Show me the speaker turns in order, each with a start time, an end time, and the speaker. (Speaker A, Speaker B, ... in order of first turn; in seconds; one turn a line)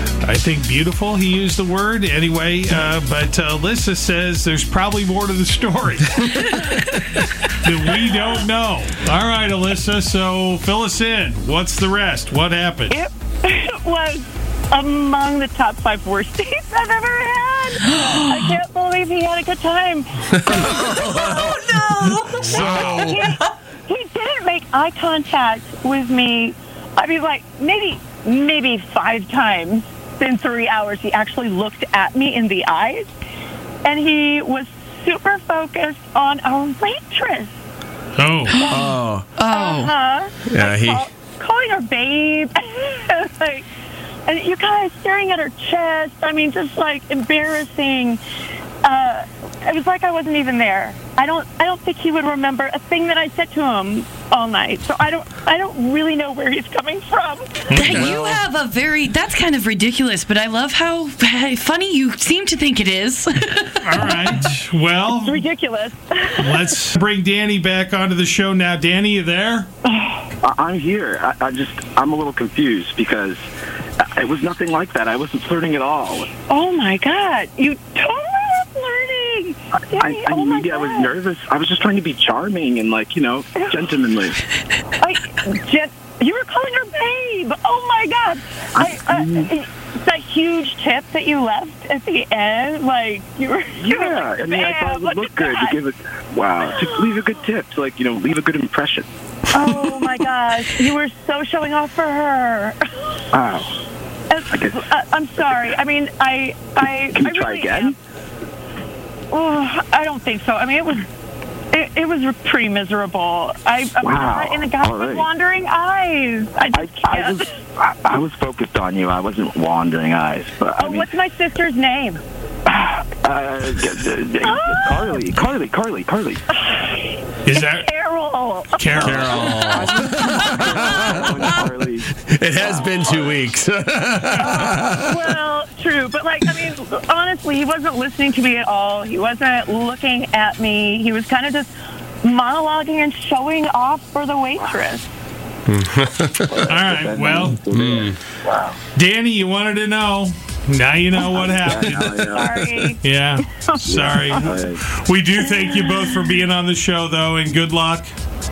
Speaker A: 0.2-6.7
Speaker A: 7.6-13.0
Speaker B: 12.9-33.1
Speaker C: 21.2-22.5
Speaker A: 22.4-23.0
Speaker B: 33.8-37.6
Speaker A: 38.2-38.7
Speaker B: 38.5-39.0
Speaker D: 38.7-39.3
Speaker C: 39.4-39.9
Speaker B: 39.5-43.7
Speaker D: 40.5-41.0
Speaker B: 44.3-48.2
Speaker B: 48.8-57.8
Speaker C: 57.7-64.3
Speaker A: 57.7-58.2
Speaker A: 63.8-65.4
Speaker B: 65.1-66.7
Speaker A: 66.4-69.7
Speaker B: 69.8-70.2
Speaker E: 70.4-73.4
Speaker E: 74.0-76.3
Speaker B: 76.5-81.1
Speaker E: 79.9-84.4
Speaker B: 85.0-95.8
Speaker E: 88.8-89.5
Speaker E: 93.8-99.1
Speaker B: 96.8-97.1
Speaker B: 99.5-102.8
Speaker E: 103.3-103.8
Speaker B: 104.3-107.9
Speaker E: 104.5-104.8
Speaker E: 107.1-107.9
Speaker B: 109.3-111.1
Speaker B: 111.7-117.5
Speaker E: 114.0-115.3
Speaker E: 116.7-121.1
Speaker B: 120.8-122.2
Speaker E: 122.7-126.4
Speaker B: 124.4-125.1
Speaker B: 126.7-127.0
Speaker A: 127.5-127.8
Speaker B: 127.5-129.8
Speaker A: 128.8-129.5
Speaker D: 129.0-130.4
Speaker E: 129.5-133.4
Speaker D: 131.2-131.5
Speaker D: 132.2-134.9
Speaker B: 134.3-141.7
Speaker B: 142.2-145.1
Speaker D: 145.7-146.5
Speaker E: 146.4-148.8
Speaker A: 146.7-147.6
Speaker D: 147.8-148.1
Speaker A: 148.9-152.3
Speaker E: 151.3-152.9
Speaker B: 152.3-153.0
Speaker A: 153.0-158.1
Speaker B: 153.7-154.4
Speaker E: 153.8-154.8